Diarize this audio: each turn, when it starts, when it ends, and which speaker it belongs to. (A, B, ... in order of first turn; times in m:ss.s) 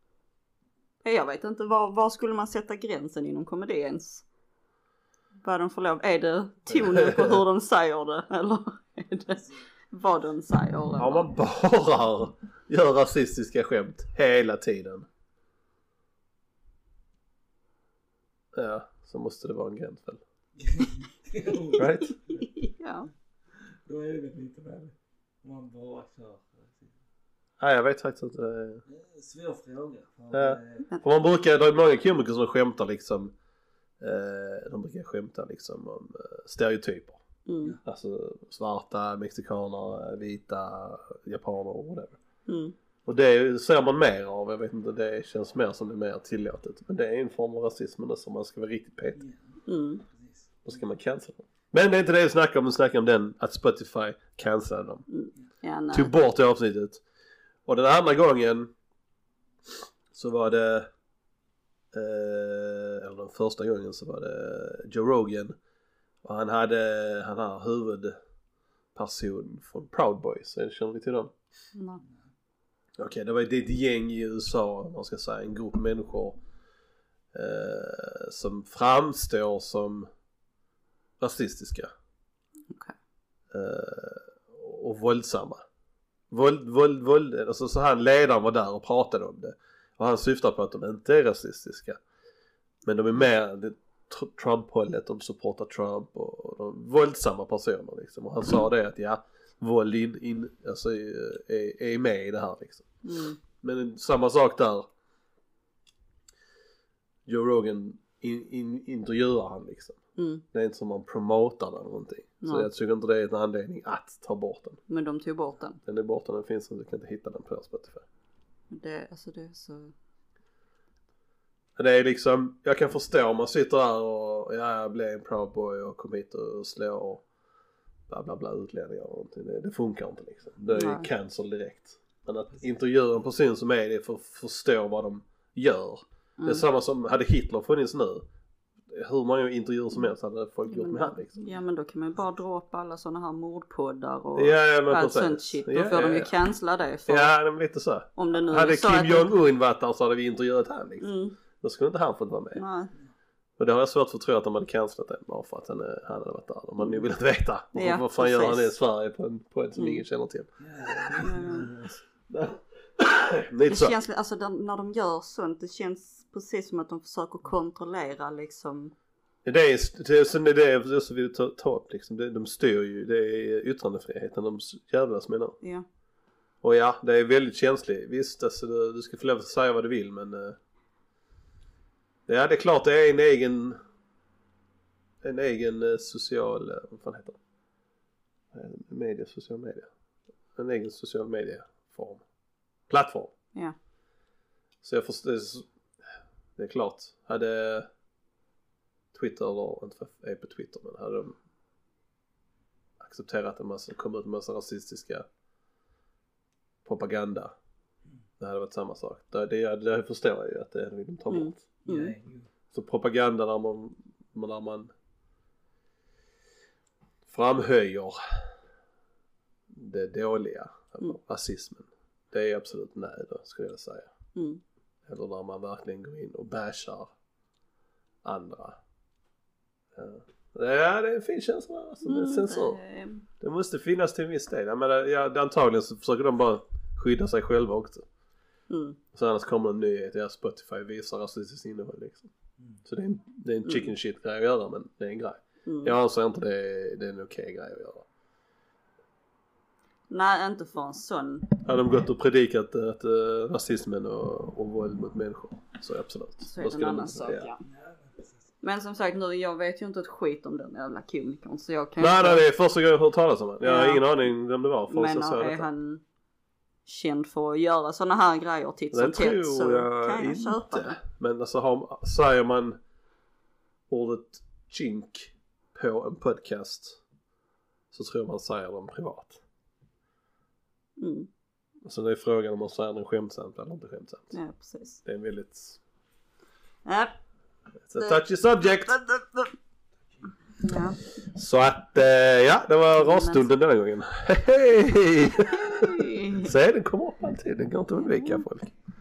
0:01.0-0:04.2 A
0:05.4-0:11.3 A
0:06.7-0:07.4 B
0:11.0-0:15.1 B
0:18.5-0:20.2 B
0:20.6-0:22.4 C
0:21.8-0:22.1 B
0:22.3-0:23.1 A
0:23.8-0:26.9 C
0:27.6-0:28.8 B
0:28.9-0:30.9 C
0:30.3-0:33.3 B
0:34.0-0:37.2 B
0:37.4-0:37.8 A
0:37.8-0:42.2 B
0:42.5-0:42.7 A
0:43.0-0:49.2 B
0:49.2-0:49.6 C
0:49.7-0:50.0 A
0:50.1-0:50.7 C
0:50.6-0:55.0 B
0:55.1-0:56.1 A
0:55.9-0:57.0 B
0:57.6-0:58.7 B
1:00.1-1:00.9 B
1:01.9-1:05.6 B
1:06.2-1:08.2 B
1:08.9-1:11.3 B
1:11.7-1:12.0 A
1:13.0-1:16.4 B
1:17.3-1:20.1 B
1:21.2-1:21.9 B
1:23.5-1:25.6 B
1:26.3-1:32.0 B
1:32.8-1:42.9 B
1:43.0-1:43.4 A
1:43.6-1:44.9 B
1:47.2-1:50.0 B
1:50.2-1:50.4 A
1:50.5-1:54.8 B
1:52.4-1:52.7 A
1:54.9-1:55.8 A
1:55.8-1:58.0 B
1:58.7-1:59.9 A
2:01.8-2:07.2 B
2:08.1-2:18.2 B
2:10.7-2:11.1 A
2:16.4-2:16.6 A
2:18.9-2:21.4 B
2:20.7-2:27.3 A
2:24.4-2:26.3 B
2:27.1-2:31.1 B
2:28.2-2:29.3 A
2:31.0-2:31.4 A
2:31.6-2:32.6 B
2:32.5-2:32.9 A
2:33.6-2:41.3 B
2:37.7-2:38.7 A
2:39.8-2:40.0 A
2:40.6-2:42.0 C
2:41.2-2:41.7 A
2:42.3-2:43.9 B
2:43.7-2:48.9 A
2:49.4-2:55.6 B
2:56.6-3:00.6 B
3:02.3-3:03.8 B
3:05.2-3:07.4 B
3:08.5-3:09.9 B
3:10.6-3:12.2 B
3:12.9-3:13.3 B
3:14.8-3:15.6 B
3:16.6-3:17.9 B
3:19.1-3:21.4 B
3:23.0-3:25.2 B
3:26.8-3:27.5 B
3:28.4-3:31.6 B
3:31.3-3:32.1 A
3:31.8-3:32.5 C
3:32.7-3:34.9 B
3:37.3-3:38.2 B
3:39.7-3:44.1 B
3:44.3-3:44.6 A
3:45.1-3:47.1 B
3:48.2-3:48.8 B
3:49.9-3:52.8 B
3:52.0-3:53.2 A
3:53.4-3:58.0 B
3:58.7-3:59.0 A
3:59.1-4:02.3 B
4:02.8-4:08.0 B
4:03.6-4:03.9 A
4:05.6-4:05.9 A
4:10.1-4:11.6 A
4:11.6-4:17.5 B
4:16.5-4:17.6 A
4:17.6-4:18.4 C
4:18.6-4:22.4 A
4:22.0-4:25.7 B
4:23.6-4:24.0 A
4:24.9-4:26.0 A
4:26.8-4:31.0 A
4:28.9-4:32.8 B
4:33.9-4:37.0 B
4:37.9-4:39.4 B
4:41.0-4:41.3 A
4:41.8-4:44.4 B
4:44.3-4:45.0 A
4:45.0-4:45.8 B
4:46.8-4:47.1 A
4:47.9-4:49.0 B
4:48.9-4:49.4 A
4:50.6-4:51.0 A
4:51.3-4:58.7 B
4:53.0-4:53.5 A
4:55.5-4:56.5 A
4:58.0-4:58.4 A